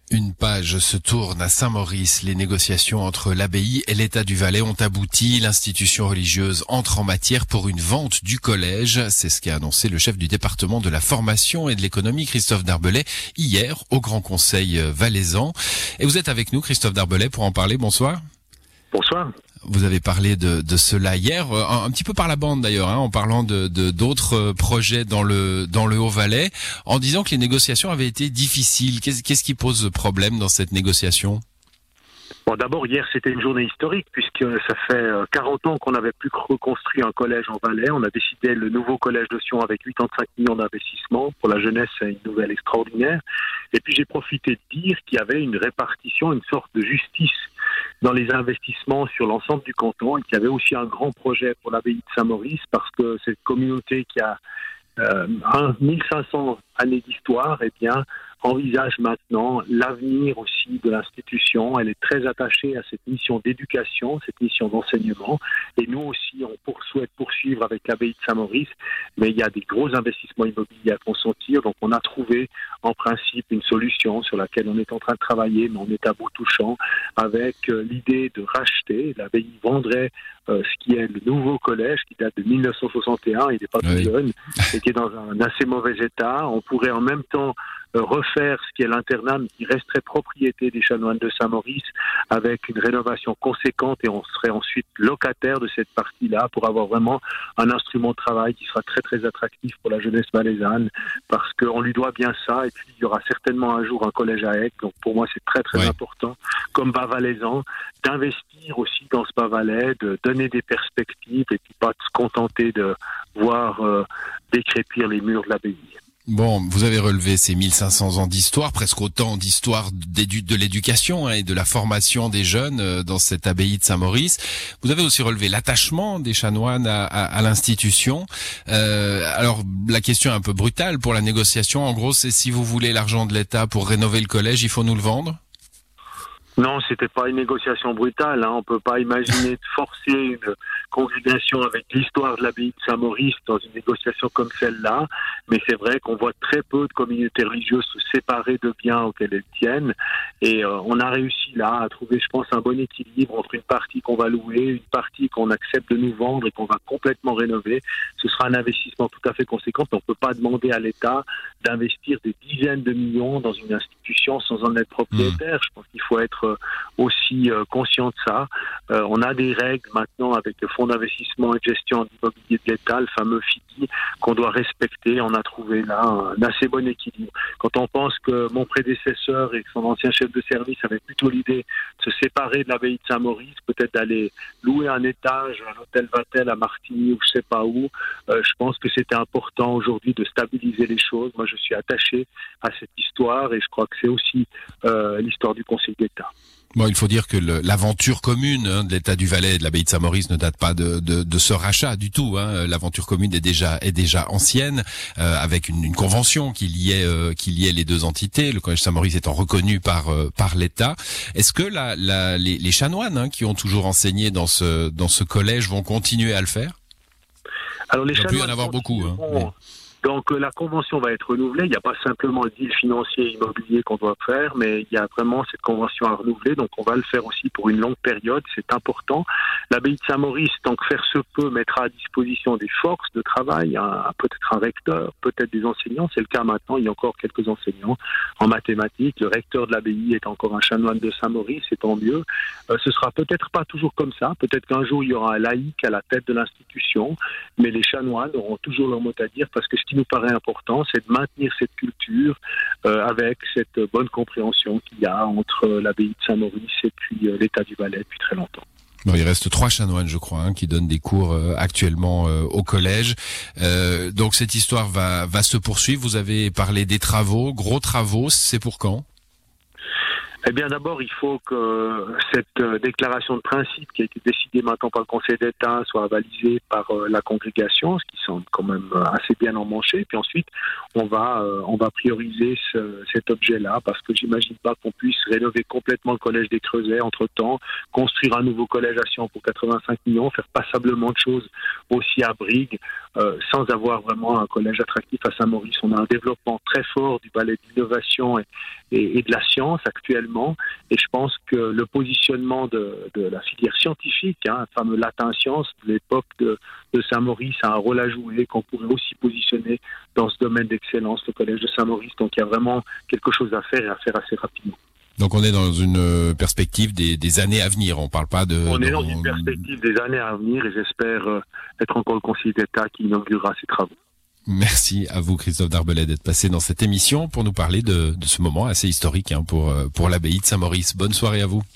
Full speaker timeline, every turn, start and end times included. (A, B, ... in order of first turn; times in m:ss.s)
0:00.1-0:18.2 A
0:18.9-0:19.3 B
0:19.7-0:31.4 A
0:32.5-0:43.2 B
0:43.7-0:47.4 B
0:48.0-0:54.4 B
0:55.0-1:56.0 B
1:23.8-1:24.1 A
1:56.3-2:15.4 A
2:16.6-3:16.3 B
3:16.8-3:36.8 A
3:37.9-4:18.6 B
3:38.1-3:39.5 A
4:19.0-4:29.0 A
4:30.4-5:14.8 B
5:15.2-5:19.6 A
5:18.7-5:23.9 B
5:24.5-5:31.6 A